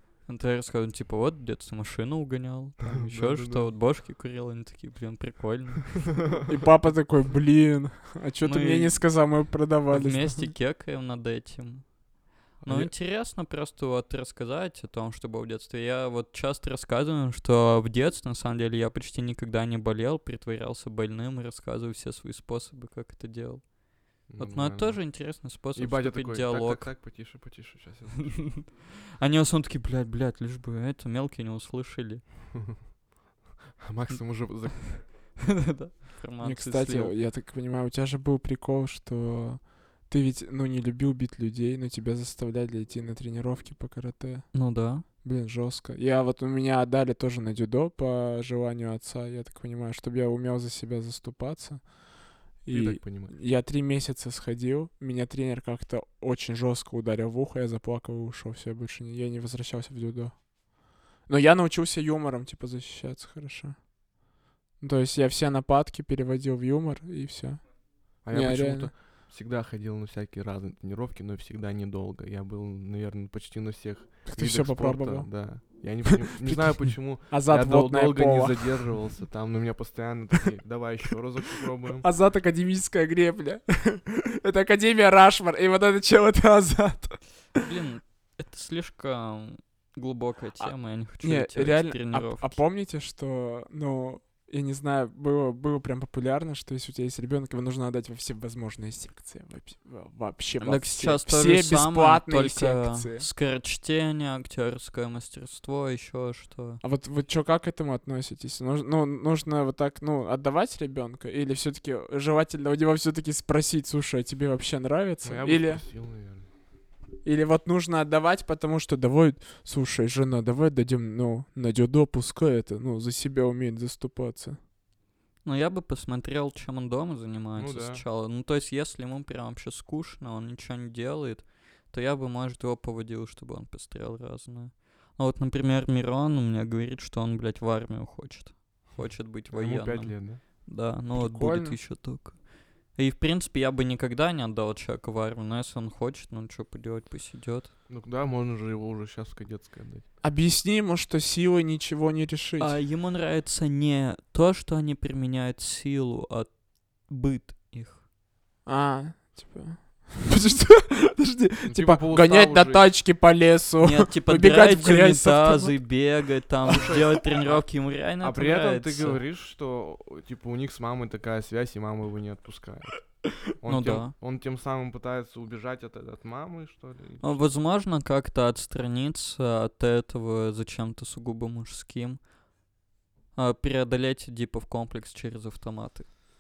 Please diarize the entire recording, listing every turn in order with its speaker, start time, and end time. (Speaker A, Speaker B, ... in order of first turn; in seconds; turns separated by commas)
Speaker A: 0.2-6.4, Speaker B: 2.8-3.7, Speaker C: 6.5-10.5, Speaker A: 8.4-26.9, Speaker B: 12.6-12.9, Speaker B: 24.3-28.6, Speaker A: 28.2-32.2, Speaker B: 32.5-32.8, Speaker B: 33.8-35.1, Speaker A: 34.9-37.2, Speaker C: 36.4-52.0, Speaker A: 44.5-45.0, Speaker C: 52.6-64.1, Speaker B: 52.7-53.3, Speaker C: 64.8-68.9, Speaker B: 68.2-82.1, Speaker C: 74.3-75.8, Speaker C: 76.3-79.0, Speaker C: 82.0-87.4, Speaker A: 87.6-92.6, Speaker C: 90.6-103.3, Speaker A: 100.6-106.8, Speaker C: 106.8-115.8, Speaker B: 115.2-116.5, Speaker C: 117.2-124.6, Speaker A: 125.4-147.7, Speaker B: 127.6-128.0, Speaker B: 138.9-140.4, Speaker C: 141.1-141.8, Speaker B: 147.9-150.1, Speaker C: 150.2-152.8, Speaker A: 152.6-158.0, Speaker C: 158.7-165.9, Speaker B: 161.7-162.9, Speaker A: 163.8-169.2, Speaker B: 166.7-177.5, Speaker A: 173.7-174.1, Speaker A: 177.2-182.2, Speaker A: 183.3-186.1